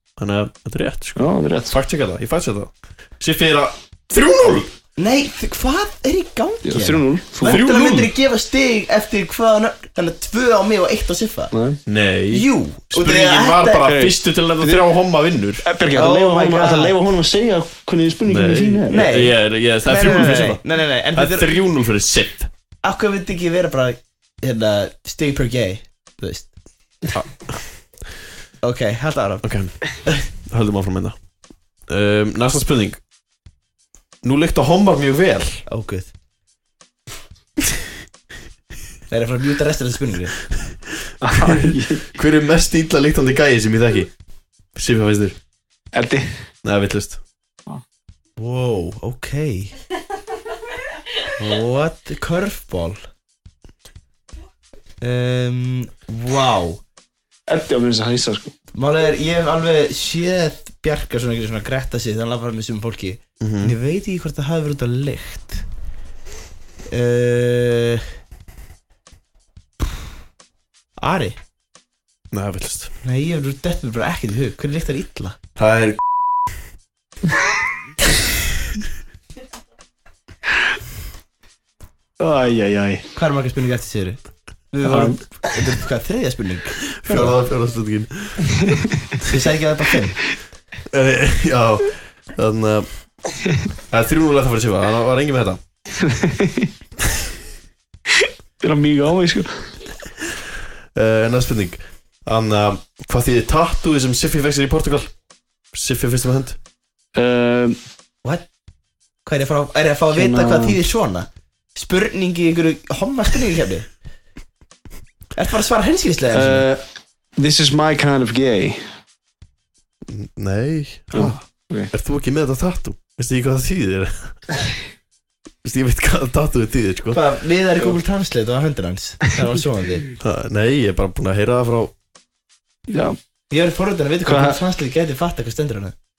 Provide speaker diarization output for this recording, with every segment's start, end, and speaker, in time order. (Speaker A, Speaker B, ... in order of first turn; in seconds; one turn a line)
Speaker A: 0.2-4.7
Speaker B: 1.2-1.7
Speaker C: 5.0-11.5
Speaker B: 6.6-7.6
Speaker A: 7.4-8.1
Speaker B: 11.5-11.8
Speaker A: 11.8-15.7
Speaker C: 12.3-13.9
Speaker B: 13.8-14.9
Speaker B: 15.6-19.1
Speaker C: 15.9-16.9
Speaker A: 18.3-20.6
Speaker C: 18.9-21.5
Speaker A: 21.1-22.5
Speaker C: 22.8-26.5
Speaker A: 27.1-27.7
Speaker C: 28.6-29.4
Speaker A: 29.4-29.8
Speaker A: 30.3-31.1
Speaker A: 31.9-33.0
Speaker A: 34.2-35.6
Speaker C: 35.7-36.1
Speaker C: 39.1-40.3
Speaker B: 41.2-42.1
Speaker A: 41.3-44.1
Speaker A: 44.7-45.4
Speaker B: 45.9-46.3
Speaker A: 46.6-47.2
Speaker C: 48.4-49.7
Speaker C: 51.4-53.0
Speaker C: 55.0-56.8
Speaker B: 57.5-58.5
Speaker C: 58.7-65.6
Speaker A: 63.4-63.7
Speaker C: 66.9-68.0
Speaker C: 71.0-71.4
Speaker A: 72.3-72.9
Speaker C: 73.0-75.4
Speaker A: 75.6-76.0
Speaker B: 82.2-83.0
Speaker C: 83.1-84.2
Speaker C: 84.7-87.3
Speaker B: 84.8-85.7
Speaker A: 86.9-88.7
Speaker C: 89.2-90.2
Speaker A: 90.9-92.9
Speaker A: 93.9-95.6
Speaker B: 96.0-96.7
Speaker B: 98.1-99.8
Speaker A: 100.9-105.1
Speaker A: 105.7-106.6
Speaker B: 107.1-107.8
Speaker C: 109.2-113.9
Speaker B: 110.1-110.8
Speaker C: 115.3-116.7
Speaker B: 116.3-116.8
Speaker B: 117.4-118.8
Speaker A: 120.1-121.4
Speaker B: 121.1-121.9
Speaker A: 121.9-124.4
Speaker A: 125.6-127.2
Speaker C: 127.1-130.1
Speaker A: 130.2-131.9
Speaker B: 132.9-133.2
Speaker C: 133.5-135.9
Speaker B: 134.2-134.6